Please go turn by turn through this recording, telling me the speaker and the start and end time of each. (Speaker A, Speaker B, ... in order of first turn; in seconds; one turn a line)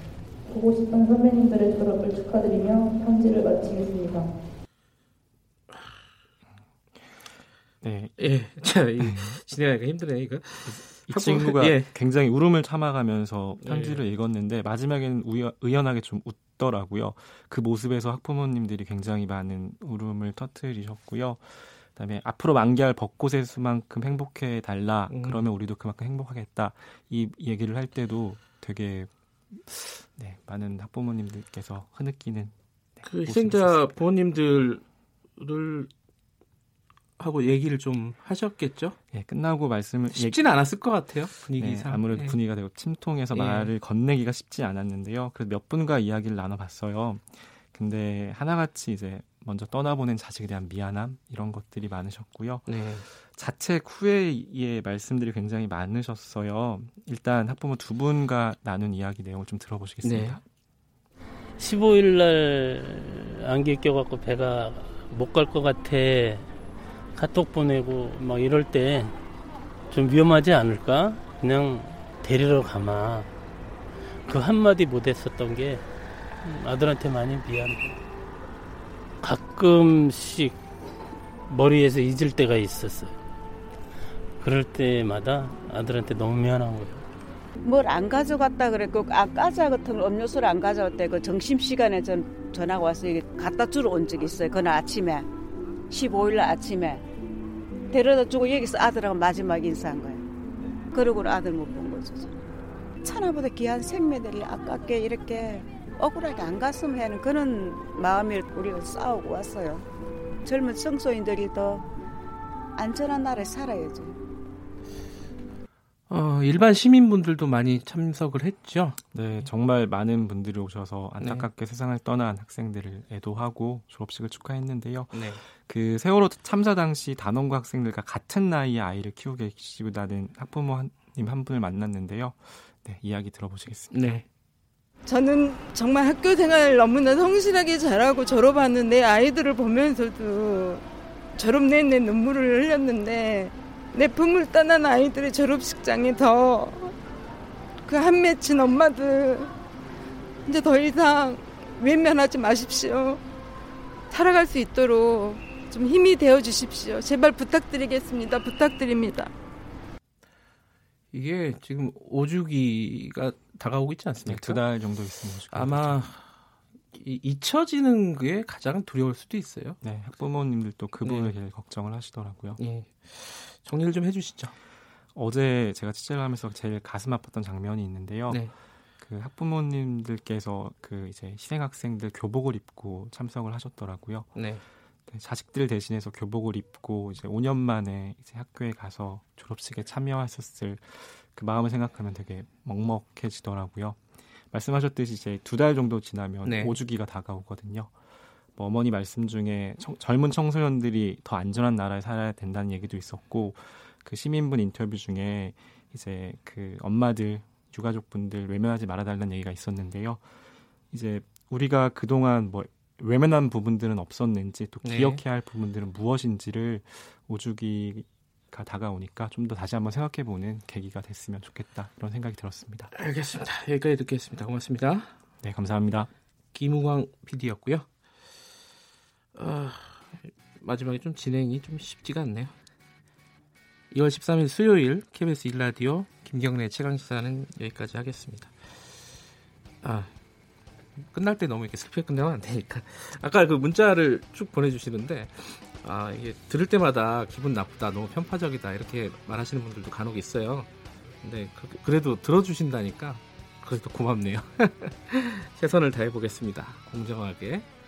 Speaker A: 0.5-4.3
Speaker B: 7.8-8.3
Speaker C: 8.2-11.9
Speaker B: 9.0-9.4
Speaker B: 10.7-33.9
Speaker C: 13.6-14.0
Speaker C: 25.1-25.5
Speaker C: 33.0-34.8
Speaker C: 35.4-35.9
Speaker C: 37.2-39.0
Speaker B: 39.1-40.5
Speaker C: 40.1-42.4
Speaker B: 41.5-60.4
Speaker C: 43.3-43.7
Speaker C: 52.7-53.1
Speaker C: 60.0-60.4
Speaker D: 61.6-66.5
Speaker D: 67.1-69.2
Speaker D: 69.9-73.3
Speaker D: 74.2-75.9
Speaker D: 76.4-78.0
Speaker D: 79.2-80.6
Speaker D: 81.5-83.2
Speaker D: 84.4-87.0
Speaker E: 87.6-95.3
Speaker E: 95.9-97.0
Speaker E: 97.9-100.2
Speaker E: 100.9-102.3
Speaker E: 103.0-109.9
Speaker E: 110.4-111.9
Speaker E: 112.8-114.2
Speaker C: 116.1-119.0
Speaker B: 119.1-134.2
Speaker C: 121.2-121.5
Speaker C: 125.1-125.4
Speaker C: 133.9-134.2
Speaker F: 135.1-140.8
Speaker F: 141.4-146.9
Speaker F: 147.9-149.5
Speaker F: 150.5-153.2
Speaker F: 154.1-159.3
Speaker C: 161.1-164.8
Speaker B: 164.2-166.0
Speaker C: 165.5-166.2
Speaker C: 166.9-169.8
Speaker B: 169.8-172.6
Speaker C: 171.0-171.3
Speaker C: 172.6-174.5
Speaker B: 175.2-184.3
Speaker C: 184.3-184.6
Speaker B: 185.1-197.9
Speaker C: 196.4-196.8
Speaker B: 198.6-210.2
Speaker B: 210.9-222.9
Speaker C: 214.8-215.2
Speaker C: 222.9-225.1
Speaker B: 225.4-226.1
Speaker C: 226.5-227.9
Speaker C: 229.4-232.5
Speaker C: 233.9-238.5
Speaker C: 239.8-240.1
Speaker C: 241.1-250.7
Speaker C: 251.2-257.7